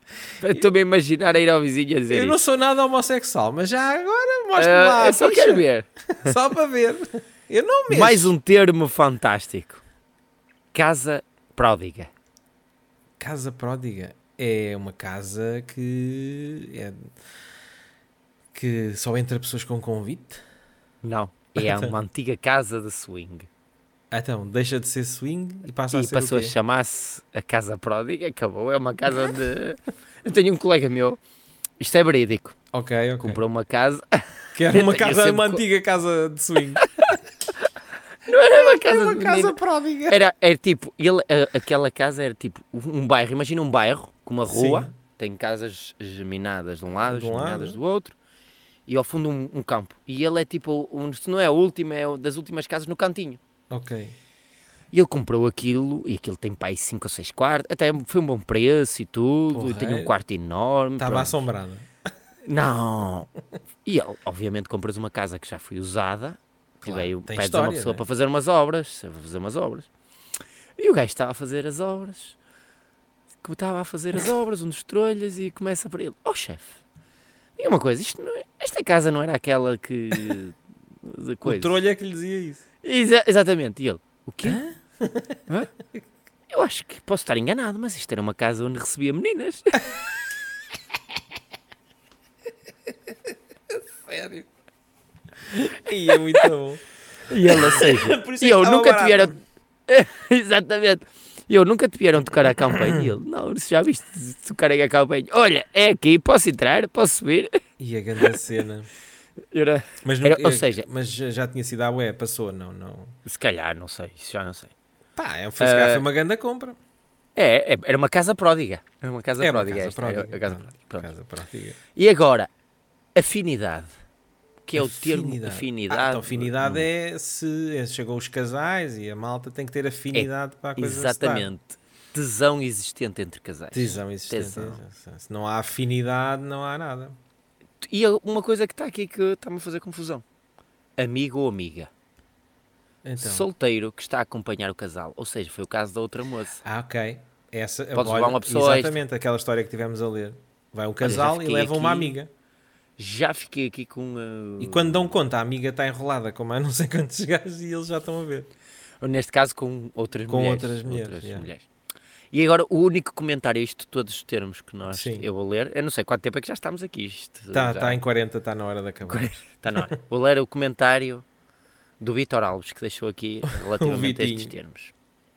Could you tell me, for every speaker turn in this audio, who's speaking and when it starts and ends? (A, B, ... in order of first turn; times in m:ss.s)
0:00.4-0:02.4 A
0:02.1-0:05.6 B
0:04.6-0:06.3 A
0:06.2-0:08.3 B
0:07.9-0:09.8 A
0:10.7-0:12.1 A
0:13.2-0:17.1 B
0:18.5-0:20.4 B
0:21.0-0:23.5 A
0:21.6-0:21.9 B
0:24.1-0:26.5 B
0:25.9-0:31.2 A
0:31.8-0:32.6 A
0:32.7-0:33.4 B
0:33.2-0:35.6 A
0:34.5-0:36.8 B
0:36.8-0:37.1 A
0:38.2-0:39.5 A
0:38.3-0:40.2 B
0:40.1-0:48.1 A
0:44.5-0:44.9 B
0:47.0-0:47.8 B
0:48.9-0:53.4 A
0:53.7-0:54.1 B
0:54.9-1:01.4 A
0:59.5-1:00.1 B
1:01.0-1:01.8 B
1:02.4-1:03.3 A
1:03.8-1:09.9 A
1:06.8-1:08.0 B
1:10.8-1:12.4 A
1:13.4-1:16.8 A
1:17.6-1:21.7 A
1:21.4-1:22.6 B
1:22.8-1:24.6 A
1:24.4-1:25.4 B
1:26.5-1:29.8 A
1:34.0-1:34.5 B
1:35.5-1:36.8 B
1:37.3-1:47.6 A
1:37.4-1:39.3 B
1:47.8-1:48.9 B
1:49.5-1:50.8 A
1:50.0-1:53.1 B
1:53.2-1:54.7 A
1:55.2-1:56.8 B
1:55.6-1:56.0 A
1:57.4-2:01.1 A
1:59.4-2:01.8 B
2:01.9-2:02.5 A
2:03.1-2:03.9 A
2:04.6-2:06.9 A
2:04.8-2:11.5 B
2:10.1-2:14.8 A
2:13.7-2:17.2 B
2:17.8-2:20.2 A
2:21.0-2:21.9 A
2:23.0-2:23.5 B
2:23.2-2:26.6 A
2:26.6-2:32.3 B
2:27.9-2:29.0 A
2:31.0-2:32.2 A
2:33.0-2:35.1 A
2:34.6-2:38.5 B
2:39.0-2:41.6 A
2:40.3-2:41.5 B
2:42.3-2:48.0 A
2:44.9-2:45.2 B
2:47.5-2:49.9 B
2:49.0-2:51.2 A
2:52.0-2:54.9 A
2:53.5-2:54.5 B